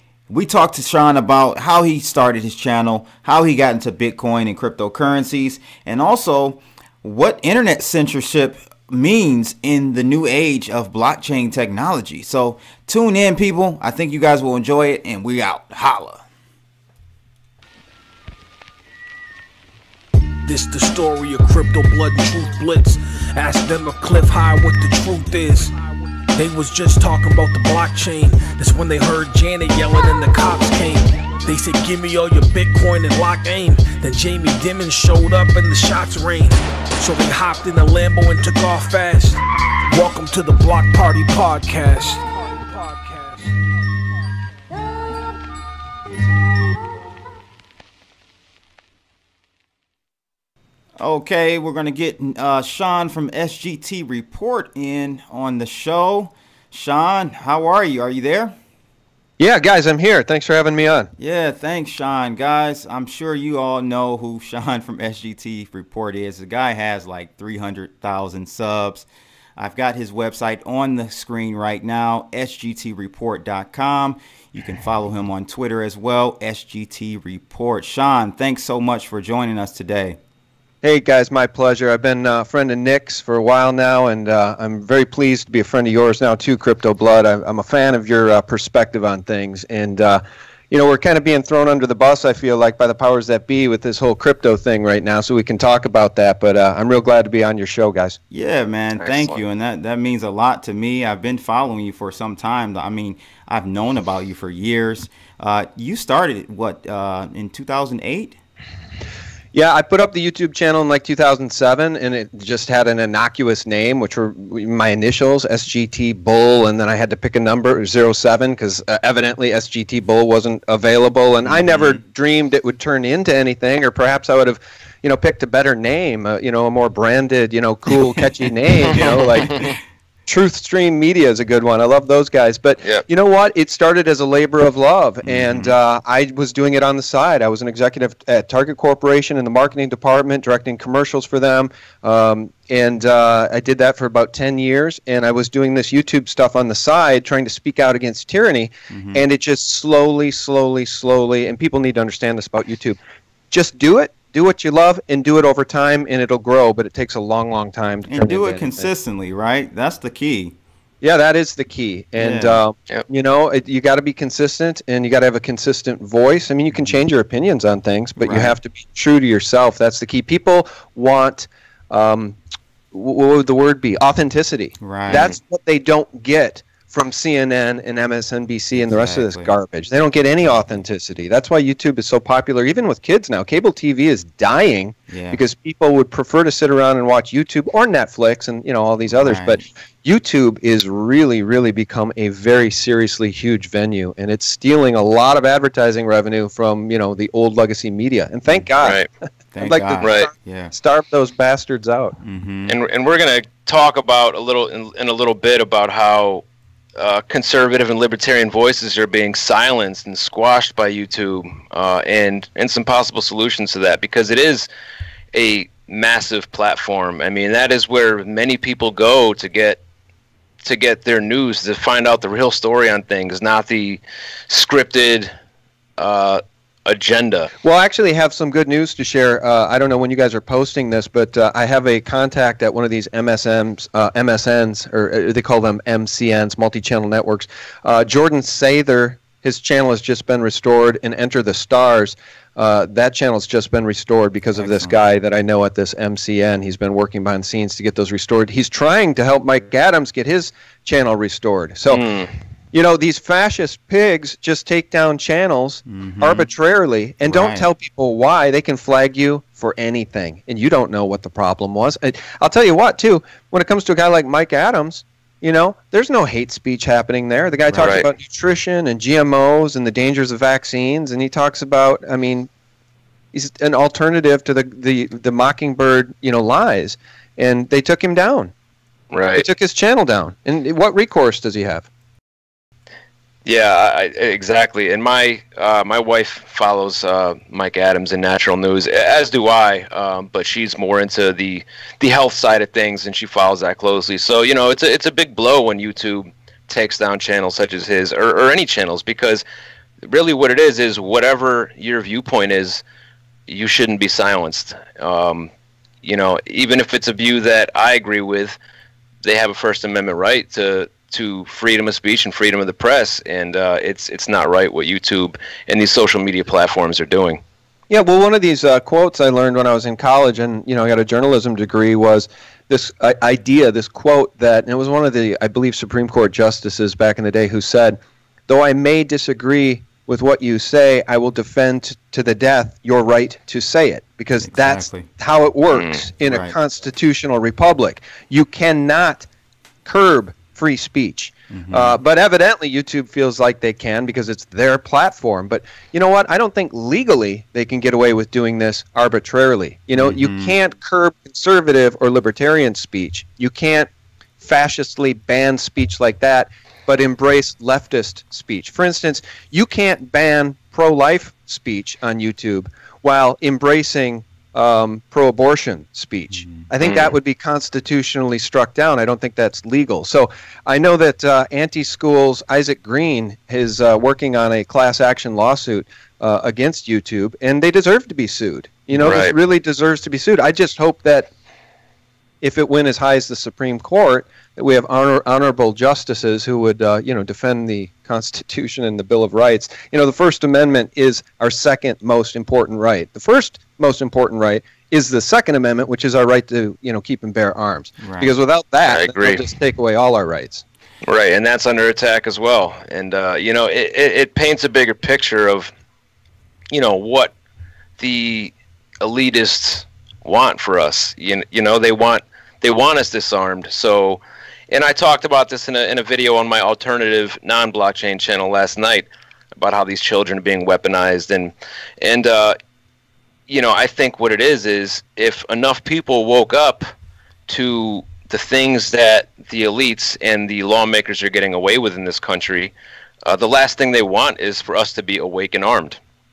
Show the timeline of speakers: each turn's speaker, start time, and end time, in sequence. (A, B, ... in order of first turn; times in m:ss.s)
0:00.3-0:16.2 A
0:20.4-0:25.8 B
0:26.3-0:43.6 B
0:51.0-0:58.6 A
0:59.4-1:01.1 C
1:01.2-1:20.2 A
1:20.8-1:38.2 C
1:38.3-1:48.4 A
1:39.0-1:39.4 D
1:49.5-2:09.6 C
2:01.4-2:02.0 A
2:10.3-2:33.0 C
2:15.2-2:15.7 A
2:28.9-2:29.2 A
2:33.5-2:38.9 C
2:38.1-2:40.6 A
2:41.0-2:52.4 C
2:42.2-2:42.6 A
2:48.2-2:48.6 A
2:52.9-3:19.0 C
2:54.8-2:55.3 A
2:55.1-2:55.4 D
2:58.7-2:59.5 A
3:05.1-3:05.4 A
3:09.0-3:09.6 A
3:18.8-3:19.1 D
3:19.5-3:20.7 A
3:19.6-3:22.2 C
3:20.0-3:20.3 D
3:22.2-3:22.8 A
3:22.7-3:26.4 D
3:27.0-3:34.7 D
3:35.3-3:39.8 D
3:40.6-3:45.3 D
3:46.0-3:47.5 D
3:47.6-4:12.0 C
4:04.6-4:05.0 A
4:11.9-4:12.3 D
4:12.7-4:32.5 C
4:15.9-4:16.5 A
4:17.2-4:17.7 A
4:27.7-4:28.1 D
4:33.3-4:38.5 C
4:39.1-4:39.4 D
4:39.4-4:41.9 C
4:43.4-4:59.4 D
5:00.0-5:02.8 D
5:03.5-5:05.5 D
5:06.0-5:08.6 D
5:09.2-5:17.4 D
5:17.9-5:28.0 C
5:28.5-5:39.3 C
5:34.4-5:35.1 A
5:35.7-5:36.0 D
5:36.2-5:36.5 A
5:39.8-5:53.9 C
5:41.5-5:42.0 A
5:49.9-5:50.6 A
5:54.4-6:21.3 C
6:06.4-6:06.6 A
6:06.8-6:07.1 D
6:18.9-6:19.3 D
6:22.4-6:40.6 C
6:38.0-6:38.3 A
6:38.8-6:39.4 D
6:41.0-6:45.7 D
6:46.7-6:47.3 D
6:48.0-7:02.6 D
7:03.5-7:06.9 D
7:07.5-7:12.7 D
7:13.2-7:16.0 D